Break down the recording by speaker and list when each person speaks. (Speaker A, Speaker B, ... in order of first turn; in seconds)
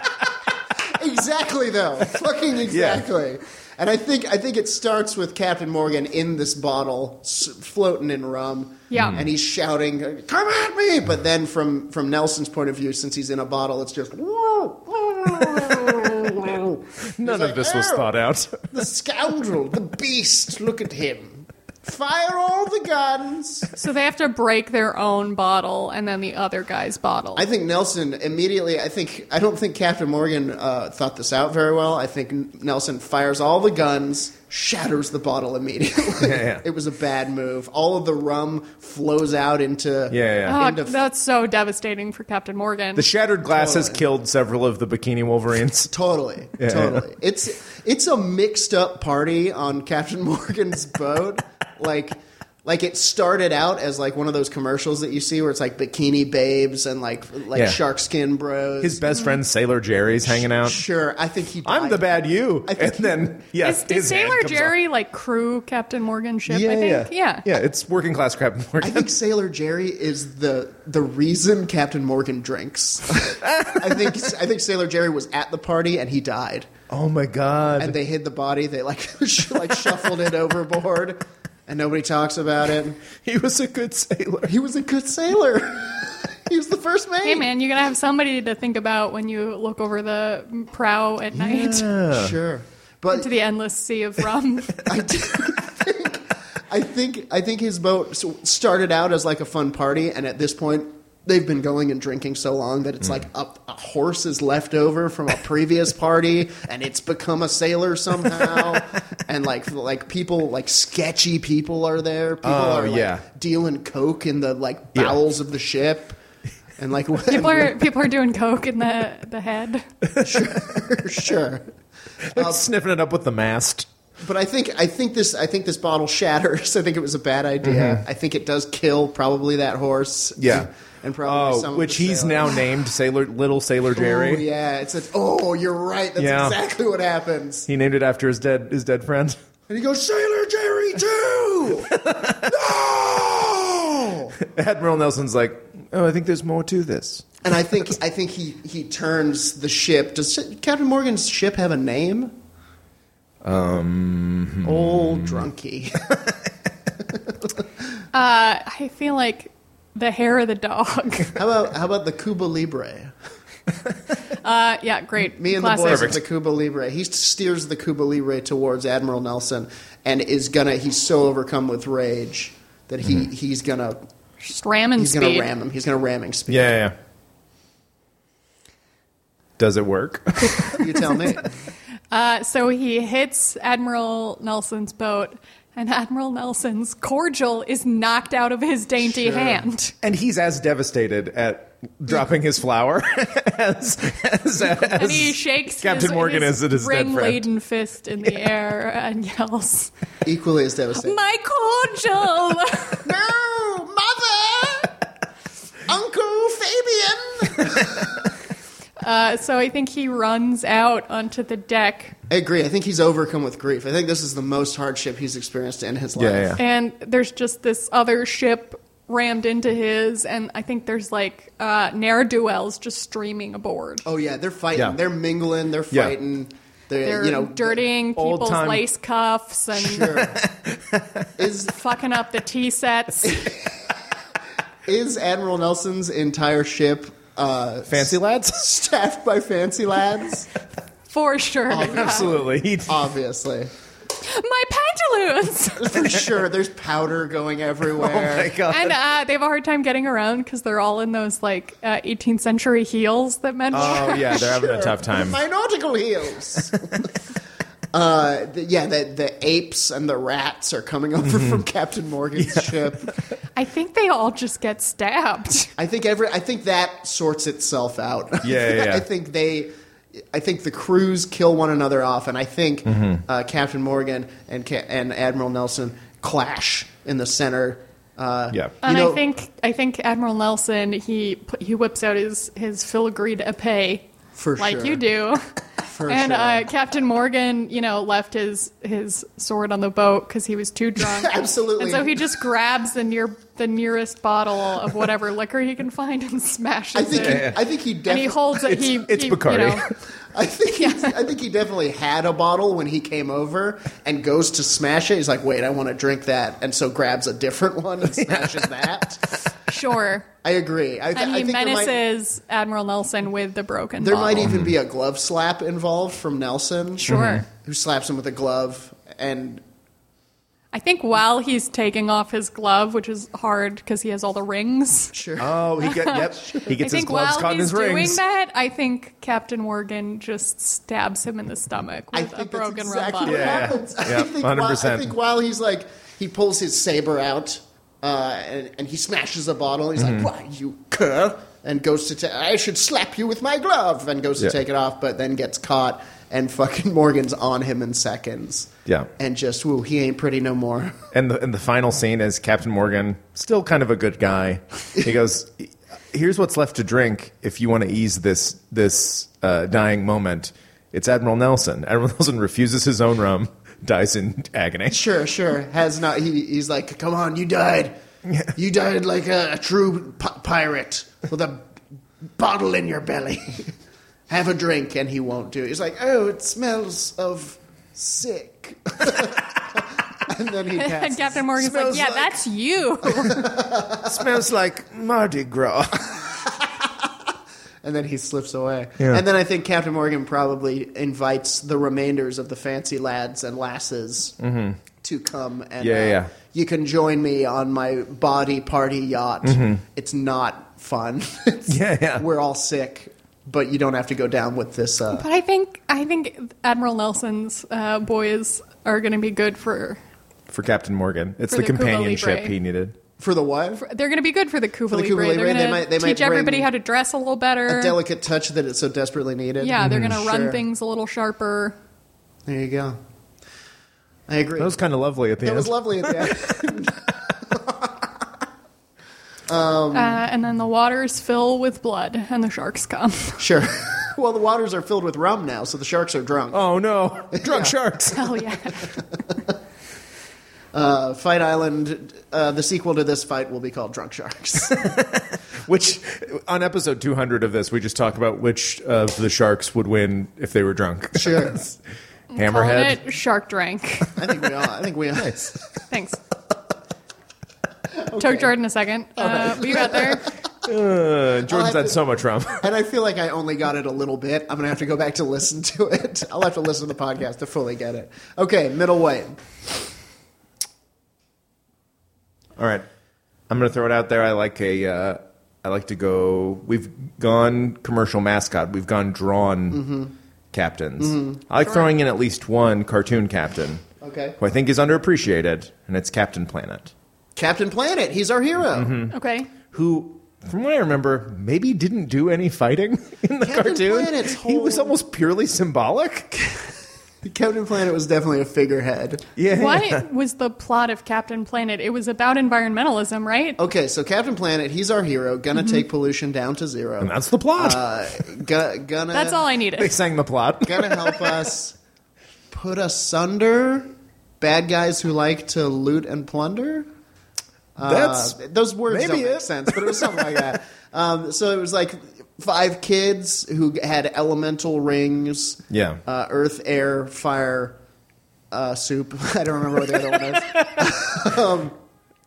Speaker A: 0.8-18.1, 18.7-23.7, 27.4-41.0, 43.5-44.0, 45.9-59.2, 60.2-62.1, 62.6-63.2, 68.8-76.7, 77.8-83.0, 84.5-87.5, 91.7-93.3, 94.8-116.2, 116.8-117.8, 120.2-121.7, 122.3-122.6, 124.2-132.6, 133.9-137.7, 139.7-144.3, 147.4-152.3, 154.6-156.1, 161.3-163.1, 165.4-174.0, 175.0-176.8, 180.7-181.5, 189.1-189.6, 200.2-201.2, 203.1-205.0, 205.9-208.2, 212.3-216.6, 224.1-227.8, 229.8-230.4, 231.4-231.7, 233.3-233.6, 234.8-240.5, 241.7-243.7, 245.8-248.6, 253.7-257.2, 257.9-263.1, 265.8-269.7, 270.3-279.2, 284.4-285.0, 285.9-286.6, 291.0-292.2, 296.9-298.5, 300.3-309.3, 310.4-312.0, 314.0-319.6, 325.1-325.6, 332.1-351.0, 364.9-368.0, 368.6-371.7, 372.4-373.7, 374.3-381.5, 383.2-384.2, 387.8-394.4, 395.0-405.2, 413.2-413.8, 414.9-416.7, 417.7-420.6, 422.5-423.0, 424.3-424.8, 425.4-428.1, 429.5-430.2, 433.4-436.6, 437.3-437.8, 440.7-444.9, 451.2-451.7, 454.2-455.5, 458.0-458.5, 459.2-460.3, 461.5-462.0, 462.6-469.4, 479.7-480.1, 481.0-481.4, 484.0-484.4, 487.4-489.1, 493.4-494.9, 497.2-499.3, 503.6-509.5, 510.6-511.8, 512.5-513.9, 514.4-516.9, 517.8-527.8, 528.5-531.8
Speaker B: 2.7-3.1, 9.0-9.3, 17.2-18.8, 36.2-36.6, 40.1-40.6, 43.0-45.9, 46.6-47.1, 57.5-57.8, 58.8-60.8, 61.6-64.7, 66.5-69.1, 73.4-74.2, 76.9-78.0, 83.2-84.5, 91.3-92.4, 108.4-108.8, 112.4-113.2, 120.2-120.6, 122.3-123.9, 127.6-128.0, 130.4-130.7, 131.2-134.5, 136.2-136.6, 137.7-139.4, 141.9-142.6, 144.4-147.3, 153.4-155.5, 165.9-166.2, 176.5-176.9, 179.6-180.9, 190.0-197.5, 216.2-216.6, 228.2-228.8, 230.2-231.3, 237.9-238.7, 241.8-243.1, 247.9-248.9, 253.7-255.4, 256.6-256.9, 261.2-261.6, 262.4-263.1, 268.4-269.1, 297.1-297.6, 298.6-299.9, 308.1-308.7, 314.4-314.7, 317.1-317.4, 325.4-328.2, 333.2-335.1, 340.0-340.3, 351.1-365.0, 381.6-382.4, 384.1-386.3, 394.4-394.8, 395.8-396.3, 399.4-399.8, 401.7-402.3, 410.5-413.0, 419.8-420.2, 424.6-426.5, 436.5-438.4, 444.7-451.8, 452.4-453.0, 455.1-455.5, 460.6-462.7, 472.6-472.9, 473.5-479.8, 480.5-483.8, 484.4-486.9, 488.7-489.1, 489.7-496.7, 499.4-500.0, 507.0-507.8, 509.8-511.5, 517.8-518.4, 518.9-520.6, 525.7-526.0
Speaker C: 8.9-9.2, 23.8-27.4, 40.5-43.1, 63.6-67.5, 87.2-91.9, 93.1-94.8, 117.3-119.9, 158.1-161.3, 164.3-166.2, 174.4-175.5, 182.1-189.9, 194.9-199.9, 201.0-203.1, 209.0-212.2, 216.6-224.1, 227.0-230.3, 231.7-233.5, 241.1-242.3, 244.2-246.1, 248.7-254.5, 263.6-265.7, 278.8-285.4, 286.1-299.9, 300.8-301.1, 309.7-310.3, 311.1-314.5, 317.1-317.5, 320.7-325.1, 325.8-333.7, 380.8-383.5, 405.1-410.0, 411.5-412.5, 413.8-418.0, 419.6-421.8, 429.9-433.4, 438.1-438.9, 452.3-454.2, 455.9-456.2, 458.2-460.2, 489.1-489.5, 499.5-503.6, 509.1-509.9